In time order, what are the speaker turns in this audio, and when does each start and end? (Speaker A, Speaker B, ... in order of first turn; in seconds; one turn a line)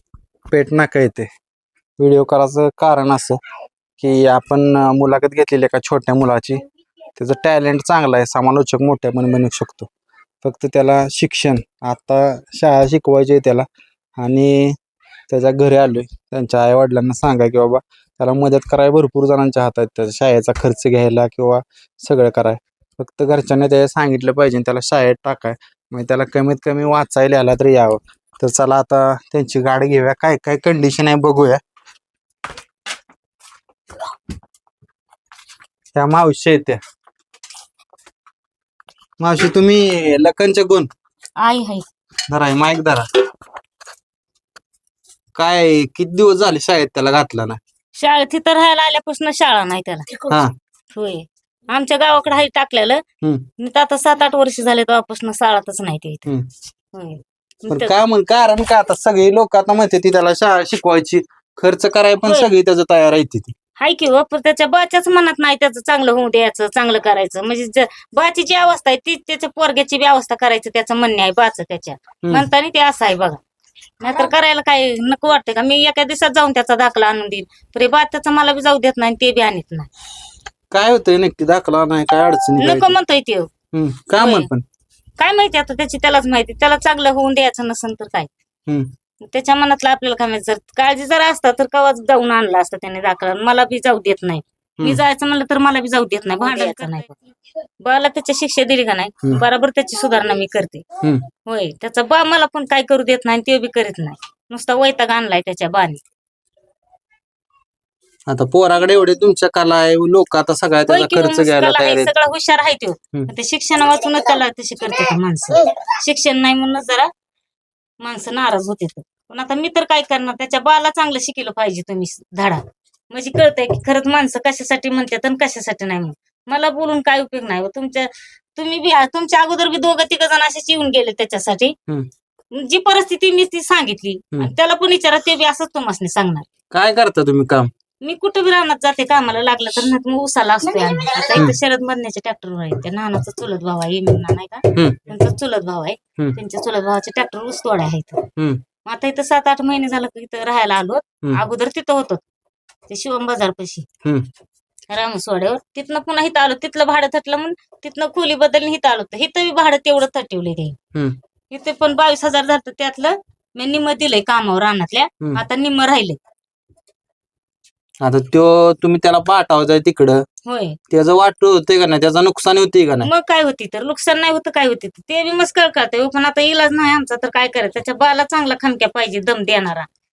Speaker A: 0.5-1.3
Speaker A: 2.0-3.4
Speaker A: 4.0-6.6
Speaker A: 7.2-9.9
Speaker A: 10.4-14.8
Speaker A: 15.3-31.6
Speaker A: 36.0-36.8
Speaker A: 39.2-40.9
Speaker B: 41.4-41.9
Speaker A: 42.3-43.1
Speaker A: 45.4-47.6
Speaker B: 48.0-50.3
Speaker A: 50.3-50.5
Speaker B: 50.9-53.0
Speaker B: 53.6-56.3
Speaker B: 56.9-58.0
Speaker A: 57.7-63.5
Speaker B: 63.8-73.4
Speaker B: 74.0-79.9
Speaker A: 80.7-83.0
Speaker B: 82.6-83.5
Speaker A: 83.7-84.6
Speaker B: 84.2-84.5
Speaker B: 85.2-88.3
Speaker B: 89.3-97.2
Speaker B: 97.8-100.9
Speaker B: 101.5-106.0
Speaker A: 108.3-112.1
Speaker B: 110.9-117.1
Speaker B: 118.0-131.8
Speaker B: 132.6-136.5
Speaker A: 136.7-137.7
Speaker B: 138.0-148.2
Speaker A: 144.7-145.0
Speaker A: 148.4-148.6
Speaker B: 148.9-152.2
Speaker B: 152.9-153.8
Speaker B: 154.9-160.8
Speaker B: 161.5-166.2
Speaker A: 168.0-170.2
Speaker B: 170.4-170.8
Speaker A: 170.9-173.1
Speaker B: 173.0-179.9